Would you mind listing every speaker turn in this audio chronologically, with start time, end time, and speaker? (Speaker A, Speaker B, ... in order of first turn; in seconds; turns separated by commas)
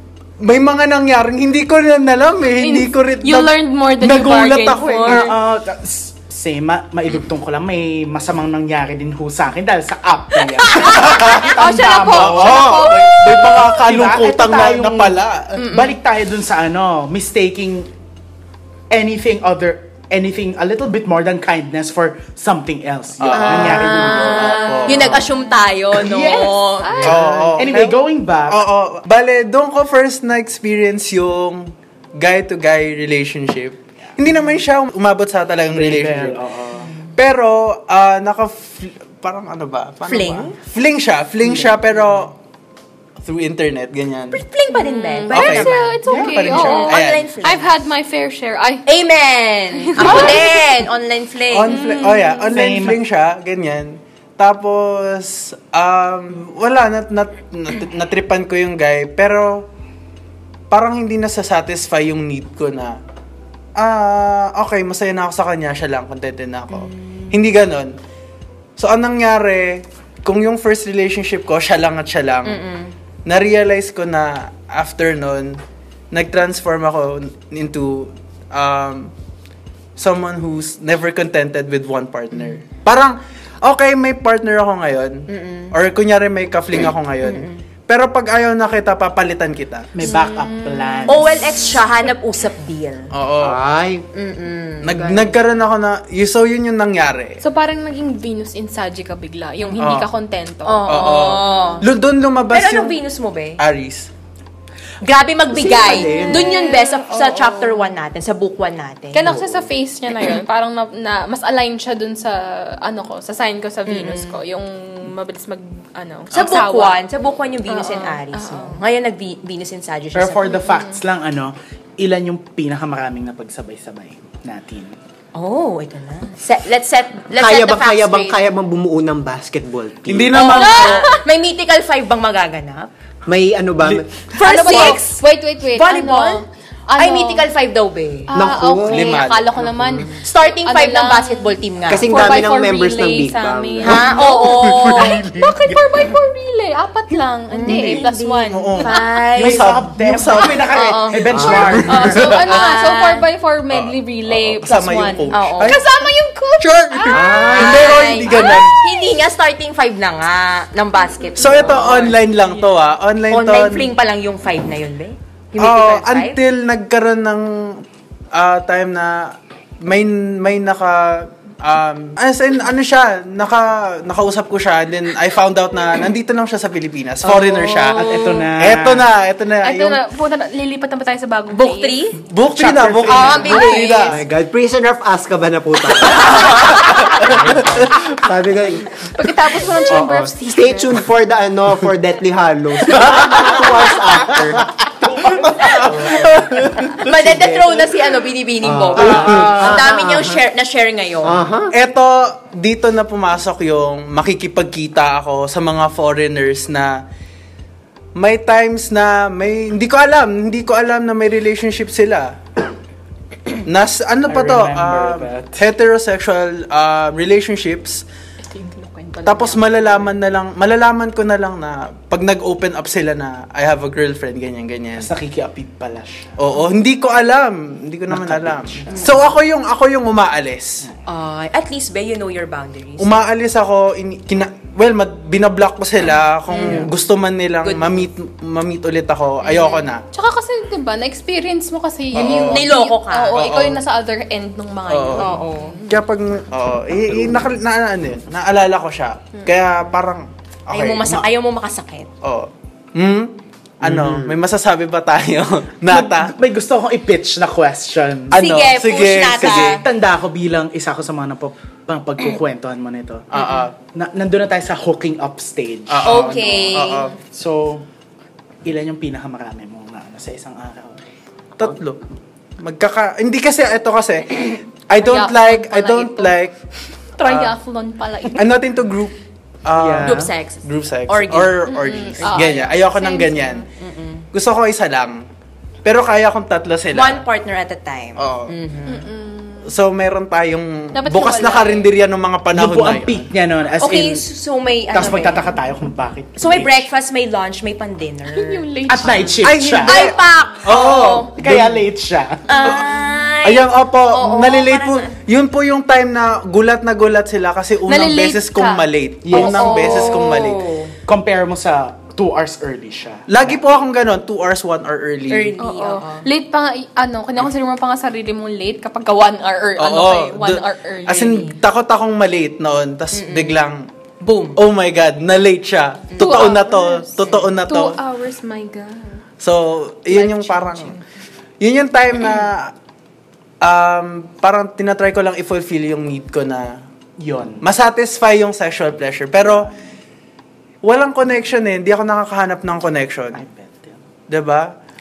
Speaker A: 0.4-5.3, Speaker B: 2.6-5.4, Speaker C: 5.0-12.9, Speaker A: 10.8-15.6, Speaker B: 10.9-13.6, Speaker C: 13.6-17.9, Speaker D: 15.6-15.9, Speaker C: 18.9-24.7, Speaker A: 23.2-25.3, Speaker D: 23.3-27.0, Speaker B: 23.9-25.4, Speaker C: 25.9-28.6, Speaker B: 26.8-27.7, Speaker A: 27.0-36.4, Speaker C: 35.7-36.9, Speaker D: 36.8-37.1, Speaker A: 37.2-42.4, Speaker D: 40.0-40.5, Speaker C: 41.4-42.2, Speaker A: 43.2-44.4, Speaker D: 44.3-47.7, Speaker B: 44.7-48.9, Speaker A: 45.3-47.3, Speaker C: 46.0-46.4, Speaker D: 48.9-51.9, Speaker B: 49.8-50.7, Speaker A: 50.0-50.4, Speaker A: 51.5-59.7, Speaker B: 51.7-52.5, Speaker C: 52.5-53.0, Speaker A: 60.7-63.0, Speaker A: 63.8-67.9, Speaker D: 66.7-67.4, Speaker A: 68.8-72.6, Speaker D: 72.5-72.9, Speaker A: 73.3-75.6, Speaker A: 76.1-79.1, Speaker A: 80.0-89.9, Speaker D: 85.3-85.7, Speaker D: 87.2-87.6, Speaker C: 89.9-91.3, Speaker B: 90.0-91.1, Speaker D: 91.1-93.1, Speaker A: 93.1-93.6, Speaker E: 93.4-94.0, Speaker D: 94.1-95.3, Speaker A: 94.8-97.4, Speaker B: 97.4-101.7, Speaker A: 99.8-100.1, Speaker D: 100.6-101.9, Speaker A: 100.9-103.0, Speaker D: 102.5-103.6, Speaker A: 103.6-104.1, Speaker D: 105.0-109.3, Speaker E: 105.5-106.5, Speaker B: 105.9-107.9, Speaker B: 109.1-117.0, Speaker E: 109.2-109.7, Speaker D: 113.9-114.4, Speaker D: 116.3-120.6, Speaker A: 116.3-116.6, Speaker B: 117.7-118.8, Speaker C: 120.1-125.0, Speaker B: 120.4-121.0, Speaker D: 125.3-128.3, Speaker E: 127.4-130.6, Speaker A: 130.1-131.1, Speaker D: 130.3-132.9, Speaker B: 130.5-131.2, Speaker E: 133.3-134.2, Speaker A: 133.8-134.8, Speaker D: 134.3-135.2, Speaker B: 134.4-137.5, Speaker D: 135.7-136.4, Speaker D: 137.0-138.3, Speaker B: 138.3-149.3, Speaker E: 138.3-140.2, Speaker A: 138.8-139.9, Speaker D: 140.2-142.4, Speaker E: 141.9-144.2, Speaker D: 143.8-145.2, Speaker A: 144.0-145.8, Speaker D: 147.5-149.7, Speaker A: 147.6-150.7, Speaker C: 149.4-152.2, Speaker B: 150.3-151.1, Speaker D: 150.6-153.2, Speaker E: 151.3-151.9, Speaker A: 151.4-152.6, Speaker B: 151.6-159.0, Speaker A: 153.7-155.9, Speaker D: 155.3-155.8, Speaker A: 156.6-158.7, Speaker E: 157.1-158.0, Speaker D: 157.3-162.5, Speaker A: 161.4-163.9, Speaker D: 163.3-166.4, Speaker A: 165.6-180.0, Speaker D: 177.2-178.5, Speaker C: 177.9-179.1, Speaker B: 179.6-181.9, Speaker D: 181.5-182.2, Speaker A: 182.2-184.2, Speaker C: 182.5-183.4, Speaker B: 183.1-184.2, Speaker D: 183.4-183.9, Speaker E: 184.1-186.8, Speaker A: 186.2-186.8, Speaker C: 187.2-187.9, Speaker E: 187.4-189.1, Speaker B: 189.1-191.0, Speaker E: 189.9-196.3, Speaker A: 193.0-193.4, Speaker A: 195.7-197.0, Speaker D: 196.9-201.4, Speaker E: 197.1-197.8, Speaker E: 198.6-200.4, Speaker C: 199.0-199.8, Speaker A: 199.1-199.4, Speaker E: 201.2-201.7, Speaker A: 201.7-207.0, Speaker A: 208.2-212.4, Speaker A: 213.6-218.1, Speaker C: 214.3-215.6, Speaker B: 218.4-220.1, Speaker A: 219.2-225.1, Speaker C: 224.9-226.3, Speaker A: 226.4-230.8, Speaker C: 228.1-229.1, Speaker D: 228.9-229.2, Speaker D: 231.1-233.2, Speaker A: 233.0-240.0, Speaker D: 236.5-236.9, Speaker D: 237.6-238.1, Speaker D: 239.4-239.9, Speaker B: 240.1-246.0, Speaker A: 242.1-242.7, Speaker D: 242.2-243.5, Speaker A: 243.3-243.8, Speaker A: 244.9-245.3, Speaker D: 245.2-245.8, Speaker A: 245.9-251.2, Speaker E: 247.1-247.5, Speaker D: 250.7-252.1, Speaker A: 252.2-256.3, Speaker E: 253.8-254.4, Speaker C: 255.9-258.4, Speaker A: 258.3-259.8, Speaker D: 258.3-259.8, Speaker C: 259.3-263.2, Speaker A: 263.3-263.7, Speaker D: 263.3-263.7, Speaker C: 263.8-267.8, Speaker A: 265.9-267.1, Speaker D: 266.0-267.1, Speaker C: 268.6-271.0, Speaker A: 271.6-272.0, Speaker A: 272.6-276.5, Speaker B: 275.0-276.3, Speaker B: 277.2-278.5, Speaker A: 277.2-277.6, Speaker A: 278.3-283.7, Speaker C: 279.7-280.3, Speaker D: 280.0-281.6, Speaker B: 281.7-283.7, Speaker D: 282.2-282.6, Speaker D: 283.8-284.2, Speaker A: 284.3-285.2, Speaker A: 285.8-287.2, Speaker D: 286.9-289.1, Speaker A: 288.2-288.5, Speaker B: 288.9-289.7, Speaker A: 289.6-293.3, Speaker B: 290.9-291.9, Speaker C: 292.5-294.2, Speaker D: 293.8-295.4, Speaker C: 294.9-296.9, Speaker D: 296.4-298.6, Speaker B: 298.3-299.5, Speaker C: 298.9-300.1, Speaker A: 299.4-301.8, Speaker D: 299.8-301.3, Speaker C: 300.7-302.8, Speaker D: 302.5-305.1, Speaker A: 302.6-302.9, Speaker A: 303.4-310.6, Speaker B: 307.9-310.3, Speaker C: 309.2-309.7, Speaker D: 309.4-310.9, Speaker C: 311.1-313.6, Speaker A: 313.3-315.6, Speaker D: 315.3-316.3, Speaker B: 315.6-321.5, Speaker A: 319.8-323.9, Speaker D: 323.1-323.6, Speaker D: 324.2-324.6, Speaker A: 324.6-328.0, Speaker D: 326.1-326.6, Speaker B: 326.2-329.2, Speaker D: 327.2-327.4, Speaker A: 329.4-330.9, Speaker D: 330.1-330.9, Speaker A: 331.6-332.7, Speaker A: 333.6-336.8, Speaker C: 337.2-337.6, Speaker A: 337.6-339.7, Speaker A: 340.8-343.4, Speaker C: 343.3-344.0, Speaker A: 344.3-344.7